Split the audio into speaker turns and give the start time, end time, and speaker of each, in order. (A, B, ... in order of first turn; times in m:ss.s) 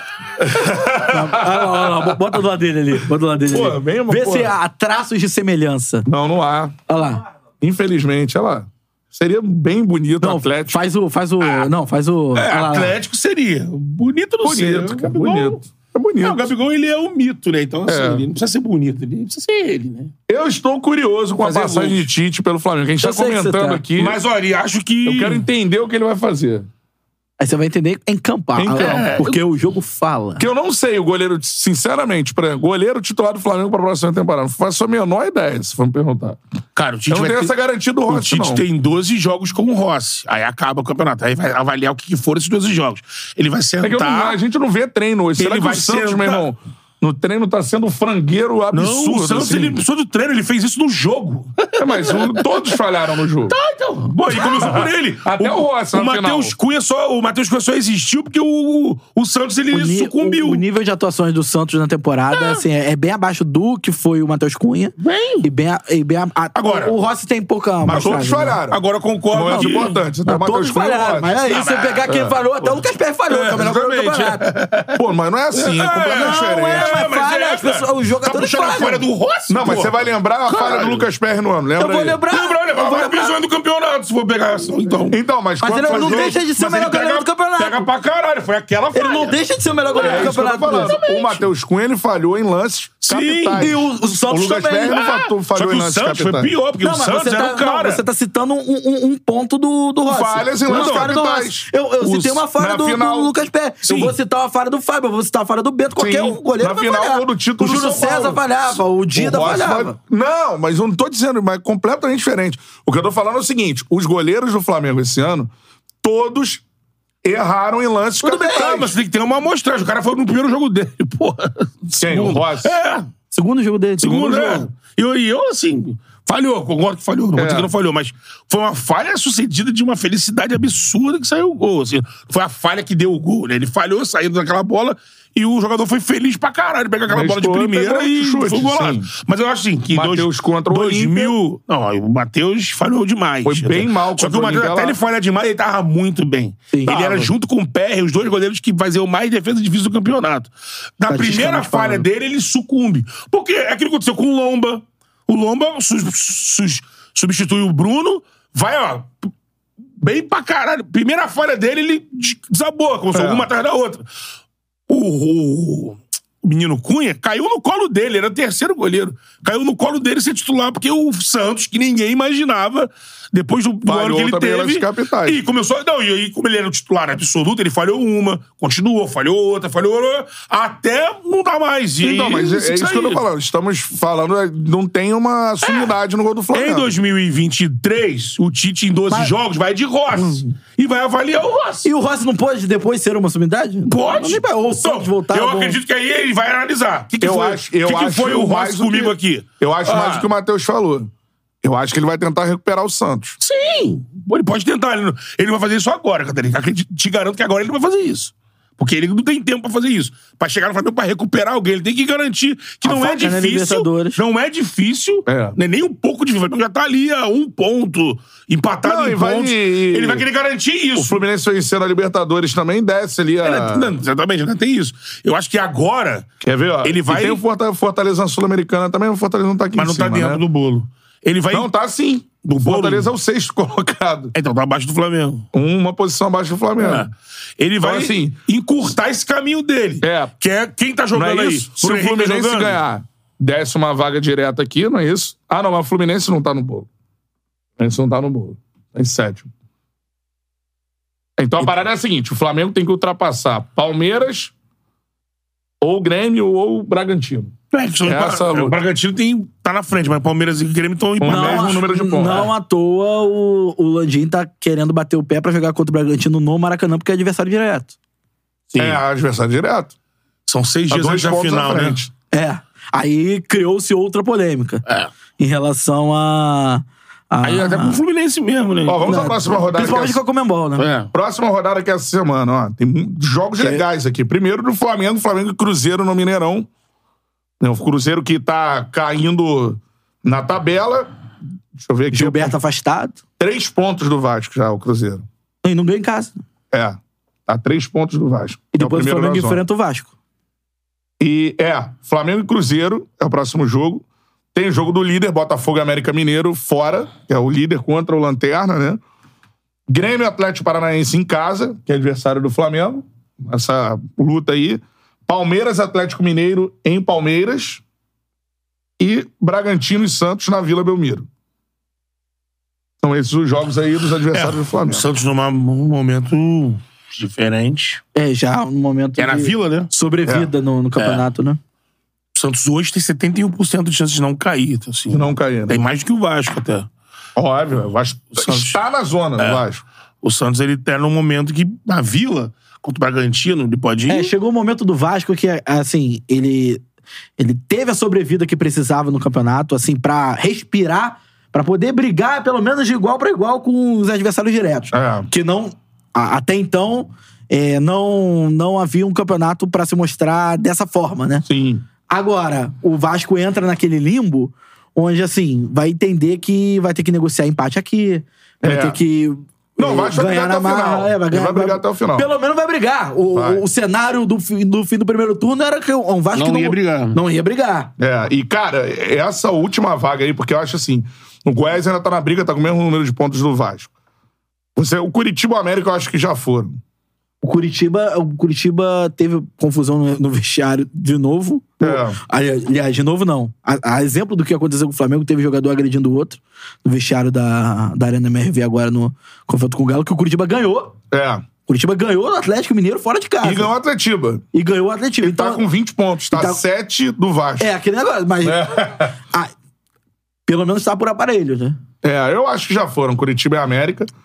0:00.4-0:02.0 A
0:01.0-0:06.1 B
0:03.4-0:04.5 A
0:06.0-0:06.8 A
0:06.9-0:07.2 B
0:07.6-0:10.8 A
0:10.2-0:12.9 B
0:11.4-0:11.7 C
0:12.3-0:15.6 C
0:14.4-0:16.5 A
0:16.2-0:20.1 C
0:17.9-0:18.2 A
0:20.3-0:24.2 A
0:21.4-0:22.1 C
0:23.0-0:23.8 B
0:24.0-0:25.4 C
0:25.0-0:26.7 A
0:27.4-0:30.4 B
0:28.6-0:29.2 A
0:28.8-0:29.4 C
0:30.4-0:36.4 A
0:36.8-0:37.5 C
0:37.1-0:38.6 A
0:38.1-0:44.4 C
0:43.8-0:49.8 A
0:45.4-0:46.4 C
0:48.7-0:52.8 C
0:51.8-0:53.5 A
0:53.5-1:00.6 C
0:54.3-0:56.5 A
0:59.7-1:08.6 B
1:02.3-1:02.6 C
1:05.0-1:05.4 C
1:06.5-1:06.9 C
1:07.9-1:08.8 A
1:07.9-1:08.2 C
1:08.7-1:10.0 C
1:09.3-1:11.4 A
1:09.5-1:14.4 B
1:11.5-1:15.0 C
1:12.1-1:12.3 A
1:15.0-1:17.0 A
1:15.5-1:21.1 C
1:16.1-1:19.0 B
1:19.5-1:22.2 A
1:21.8-1:23.4 B
1:22.3-1:25.1 C
1:25.1-1:26.4 A
1:25.6-1:27.9 B
1:25.8-1:31.4 C
1:28.9-1:31.0 B
1:30.0-1:36.5 A
1:33.0-1:33.7 C
1:33.6-1:35.0 B
1:34.3-1:38.0 C
1:36.8-1:50.0 B
1:40.1-1:43.3 A
1:40.6-1:41.1 C
1:46.0-1:48.4 A
1:49.1-1:55.5 A
1:56.0-1:56.6 A
1:57.2-1:58.9 A
1:58.2-1:58.7 B
1:58.5-2:03.1 C
2:02.0-2:02.7 A
2:03.3-2:04.7 B
2:04.0-2:39.1 C
2:07.3-2:07.7 A
2:17.1-2:19.1 A
2:19.9-2:21.3 A
2:23.4-2:25.0 A
2:26.7-2:27.2 B
2:31.1-2:32.0 B
2:40.0-2:44.0 C
2:43.1-2:43.5 A
2:44.9-3:03.2 C
2:53.8-2:55.4 A
3:02.0-3:06.9 A
3:05.6-3:05.9 C
3:06.5-3:11.9 C
3:10.2-3:10.5 B
3:11.8-3:15.8 B
3:13.9-3:20.3 C
3:17.2-3:21.1 A
3:21.6-3:23.4 A
3:23.4-3:41.2 C
3:32.8-3:34.2 B
3:35.3-3:35.6 A
3:38.8-3:40.2 A
3:41.0-3:43.9 A
3:43.4-3:46.3 C
3:46.4-3:50.4 A
3:46.8-3:47.4 C
3:49.8-3:51.7 C
3:51.5-3:54.3 A
3:52.4-3:53.1 C
3:54.3-3:55.4 C
3:55.5-3:57.1 A
3:56.8-4:02.8 C
3:57.8-3:58.4 A
4:00.0-4:00.3 A
4:01.1-4:06.9 A
4:07.8-4:09.5 A
4:11.4-4:14.5 A
4:15.8-4:17.5 A
4:17.7-4:21.8 C
4:18.0-4:18.8 A
4:21.2-4:22.5 A
4:21.2-4:27.9 B
4:28.7-4:29.0 C
4:28.8-4:29.9 A
4:30.5-4:32.0 C
4:30.9-4:32.1 A
4:32.3-4:34.8 B
4:35.4-4:38.0 B
4:37.4-4:39.3 C
4:38.8-4:40.2 A
4:39.0-4:40.9 B
4:40.8-4:41.1 C
4:41.1-4:46.7 A
4:47.6-4:51.1 A
4:51.7-4:52.5 A
4:52.1-4:53.2 B
4:53.4-4:55.2 A
4:55.6-4:56.4 B
4:56.7-4:59.6 A
4:58.7-5:00.1 B
5:01.2-5:09.0 A
5:09.9-5:17.8 A
5:19.0-5:21.3 A
5:23.0-5:25.0 A
5:24.3-5:28.0 C
5:28.1-5:31.6 B
5:29.2-5:29.9 C
5:31.0-5:31.2 C
5:32.4-5:36.9 C
5:35.1-5:35.8 A
5:37.4-5:39.8 A
5:38.4-5:38.8 C
5:40.2-5:44.3 C
5:44.1-5:46.8 B
5:47.4-6:01.4 B
5:54.9-5:55.3 A
6:01.4-6:01.8 A
6:02.1-6:17.9 B
6:08.6-6:09.0 A
6:09.8-6:12.3 A
6:13.3-6:13.6 A
6:16.3-6:17.2 C
6:18.0-6:23.9 A
6:24.8-6:26.8 A
6:27.4-6:40.9 B
6:31.8-6:32.2 A
6:41.1-6:41.4 A
6:41.7-6:43.7 B
6:43.4-6:44.4 A
6:44.5-6:45.6 B
6:45.2-6:47.7 A
6:46.3-6:46.6 B
6:47.6-6:49.5 B
6:48.4-6:49.1 A
6:50.5-6:51.8 B
6:52.0-6:54.1 A